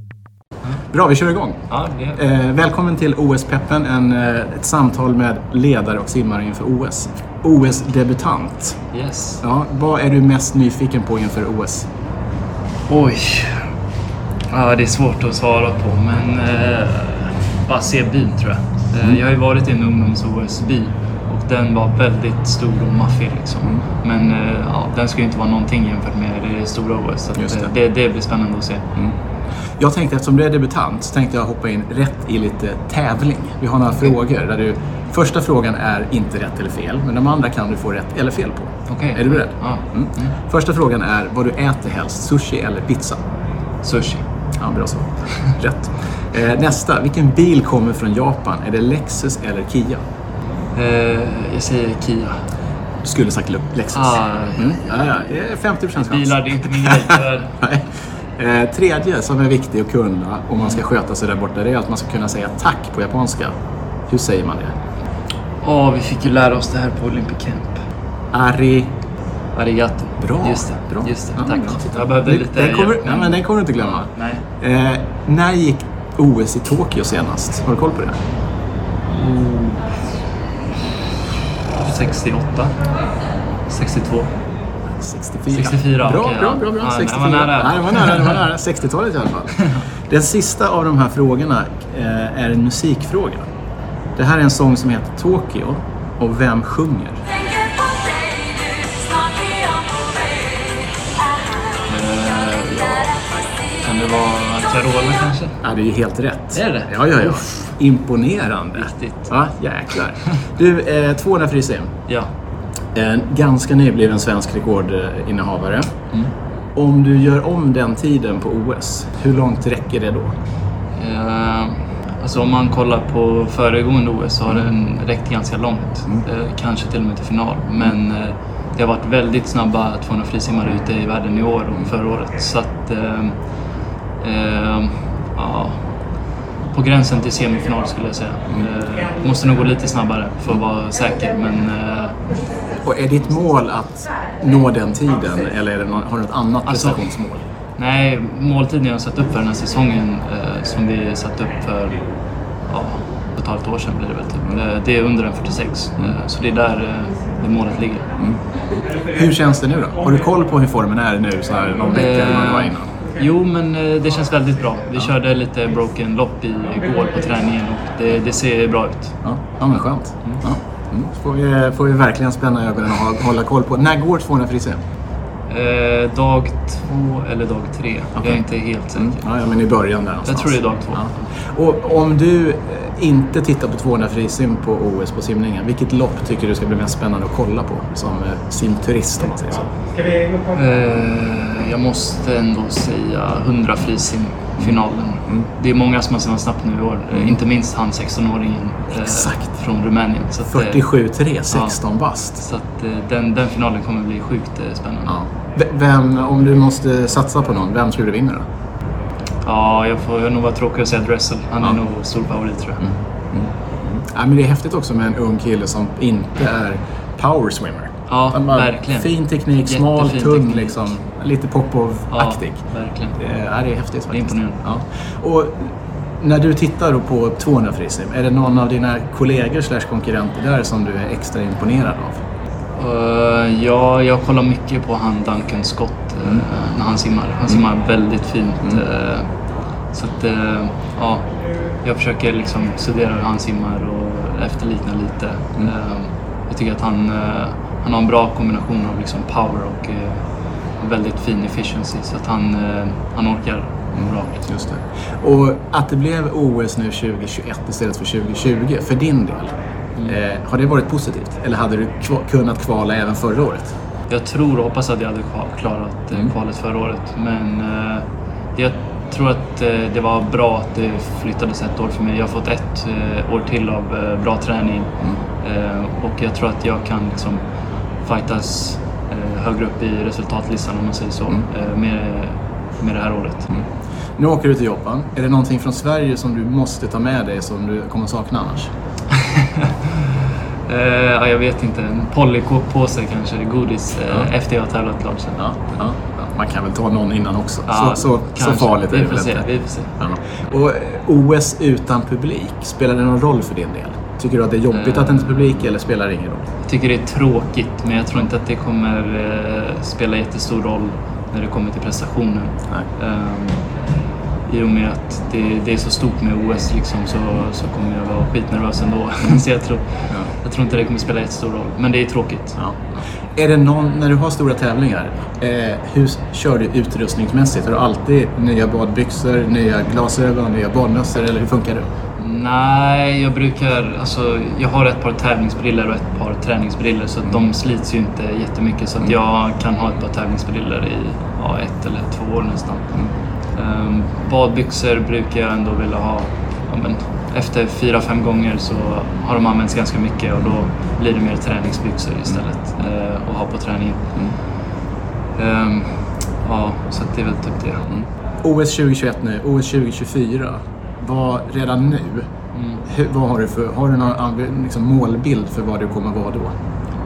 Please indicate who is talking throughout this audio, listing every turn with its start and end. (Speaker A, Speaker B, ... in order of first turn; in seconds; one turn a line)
Speaker A: 0.9-8.8
Speaker B: 1.7-2.2
Speaker B: 8.9-9.4
Speaker A: 9.4-11.9
Speaker B: 12.9-13.7
Speaker B: 14.5-28.9
Speaker A: 27.4-27.7
Speaker A: 29.8-43.2
Speaker B: 38.9-39.9
Speaker B: 43.8-44.2
Speaker A: 44.6-50.0
Speaker B: 50.8-52.4
Speaker A: 53.0-63.5
Speaker B: 53.9-54.8
Speaker B: 56.0-57.5
Speaker A: 64.1-64.8
Speaker B: 65.6-67.8
Speaker A: 68.3-69.0
Speaker B: 69.5-74.5
Speaker A: 70.2-78.2
Speaker B: 79.1-79.9
Speaker B: 81.8-82.8
Speaker B: 83.7-84.3
Speaker A: 85.0-93.5
Speaker B: 85.5-88.4
Speaker A: 94.2-97.2
Speaker B: 101.9-103.1
Speaker B: 103.8-105.6
Speaker A: 105.6-111.9
Speaker B: 106.5-107.7
Speaker B: 108.8-109.3
Speaker A: 113.0-116.0
Speaker A: 116.8-120.3
Speaker B: 120.9-133.3
Speaker B: 134.2-135.8
Speaker B: 136.7-142.2
Speaker A: 142.8-147.4
Speaker B: 146.7-147.0
Speaker B: 147.8-152.1
Speaker B: 152.7-158.1
Speaker A: 159.0-162.9
Speaker B: 161.9-169.1
Speaker A: 169.2-174.8
Speaker B: 175.5-179.2
Speaker A: 179.0-189.7
Speaker B: 180.3-181.2
Speaker B: 190.5-200.8
Speaker A: 199.0-199.5
Speaker A: 200.5-202.4
Speaker B: 201.5-201.8
Speaker B: 202.4-205.2
Speaker A: 205.1-208.5
Speaker B: 209.4-212.8
Speaker A: 212.8-222.6
Speaker B: 218.1-219.2
Speaker B: 219.7-220.9
Speaker B: 222.1-223.2
Speaker A: 223.2-232.2
Speaker B: 224.1-224.6
Speaker B: 232.8-239.3
Speaker B: 239.9-241.3
Speaker B: 241.8-250.2
Speaker B: 250.8-254.5
Speaker A: 253.9-259.5
Speaker A: 260.1-263.7
Speaker B: 264.1-277.4
Speaker B: 278.0-283.5
Speaker A: 284.2-288.7
Speaker B: 289.1-290.1
Speaker B: 290.7-295.6
Speaker A: 295.4-299.5
Speaker B: 297.7-299.9
Speaker A: 300.0-306.5
Speaker B: 304.7-305.7
Speaker B: 306.7-313.6
Speaker B: 314.5-322.6
Speaker A: 322.6-331.9
Speaker B: 332.2-342.9
Speaker B: 343.6-354.1
Speaker B: 355.4-357.9
Speaker A: 357.9-362.3
Speaker B: 362.5-362.8
Speaker A: 362.8-366.5